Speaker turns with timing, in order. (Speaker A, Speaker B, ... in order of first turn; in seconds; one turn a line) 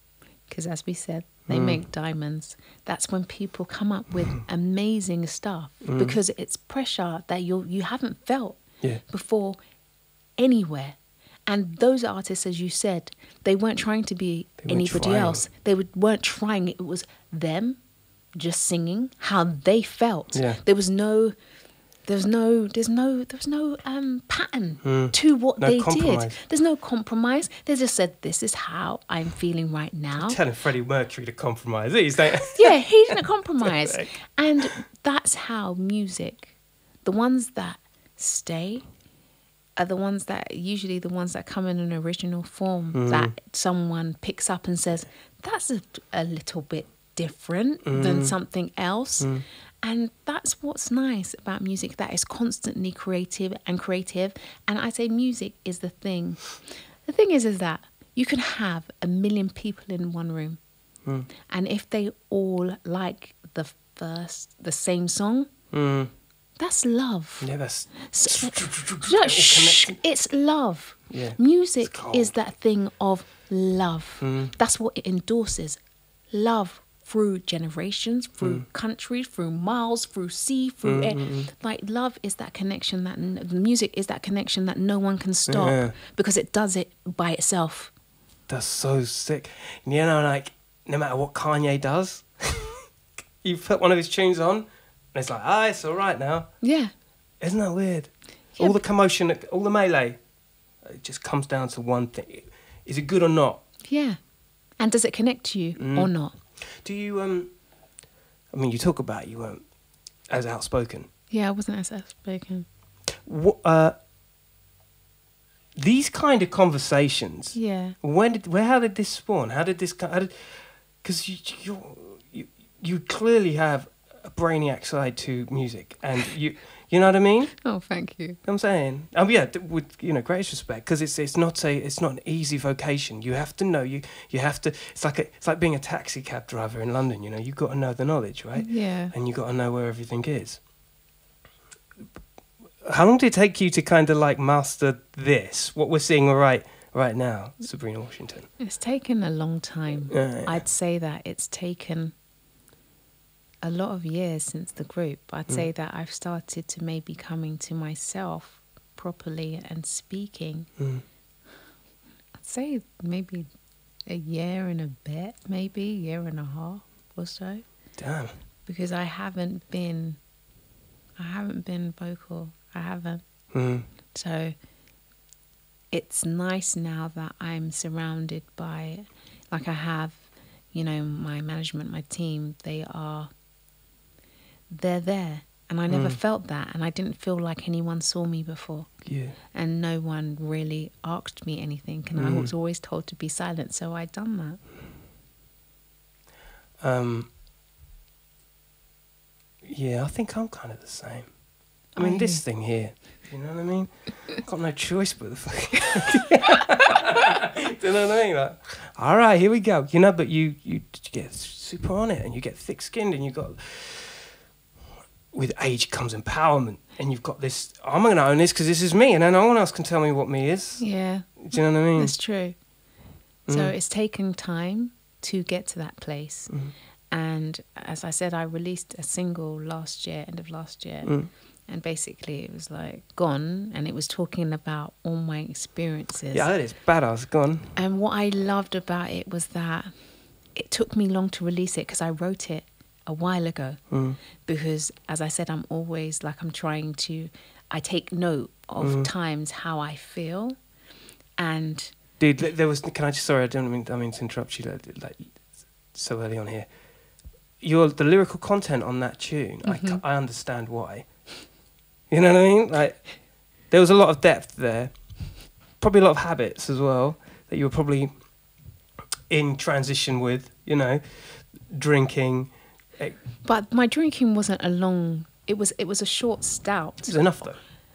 Speaker A: 0.5-9.6
Speaker B: 1.5-1.8
Speaker B: 5.8-6.2
Speaker A: 10.4-17.8
Speaker B: 14.6-15.4
Speaker A: 18.3-21.4
Speaker B: 20.3-20.6
Speaker A: 22.1-30.4
Speaker B: 24.8-26.4
Speaker B: 30.2-32.8
Speaker A: 32.5-38.9
Speaker B: 33.6-34.1
Speaker A: 39.8-60.6
Speaker B: 42.9-43.3
Speaker B: 47.9-48.4
Speaker B: 49.2-49.5
Speaker A: 61.5-65.5
Speaker B: 65.7-66.1
Speaker A: 66.6-75.8
Speaker B: 67.4-70.0
Speaker B: 71.1-72.3
Speaker B: 74.2-74.5
Speaker A: 76.3-87.9
Speaker B: 78.4-78.6
Speaker B: 80.8-81.5
Speaker B: 85.5-86.0
Speaker B: 88.5-92.8
Speaker B: 93.4-96.5
Speaker A: 96.6-96.9
Speaker B: 97.4-100.2
Speaker B: 100.8-103.6
Speaker A: 103.8-104.2
Speaker A: 104.8-106.3
Speaker B: 105.8-107.5
Speaker B: 108.5-109.7
Speaker B: 110.3-111.1
Speaker A: 111.3-112.7
Speaker B: 113.2-114.0
Speaker B: 115.8-127.6
Speaker A: 117.5-118.0
Speaker A: 127.6-128.4
Speaker B: 128.4-140.6
Speaker A: 138.6-139.1
Speaker B: 142.8-148.5
Speaker A: 148.6-152.1
Speaker B: 150.1-150.6
Speaker A: 153.6-160.7
Speaker B: 160.8-161.0
Speaker A: 162.4-163.5
Speaker A: 164.1-167.7
Speaker B: 168.0-168.4
Speaker A: 168.7-170.2
Speaker A: 171.2-173.2
Speaker B: 173.5-173.9
Speaker A: 174.1-174.6
Speaker A: 175.9-183.3
Speaker A: 184.7-188.9
Speaker B: 185.9-186.2
Speaker B: 189.1-189.4
Speaker A: 189.5-194.6
Speaker B: 192.2-192.5
Speaker B: 196.8-197.3
Speaker B: 199.6-201.3
Speaker A: 201.9-202.4
Speaker B: 202.0-214.3
Speaker B: 215.3-220.9
Speaker A: 220.8-222.6
Speaker B: 221.4-222.2
Speaker B: 223.5-223.7
Speaker A: 223.5-226.5
Speaker A: 227.1-236.5
Speaker B: 231.1-231.3
Speaker B: 236.3-237.7
Speaker A: 237.8-239.9
Speaker A: 240.5-243.8
Speaker B: 243.9-244.2
Speaker A: 244.4-250.6
Speaker B: 248.8-249.1
Speaker A: 251.4-251.9
Speaker B: 252.2-255.4
Speaker B: 255.9-256.7
Speaker B: 257.6-261.2
Speaker A: 259.6-260.0
Speaker B: 262.1-263.1
Speaker B: 263.7-268.1
Speaker B: 269.3-273.2
Speaker A: 273.4-277.4
Speaker B: 277.0-277.6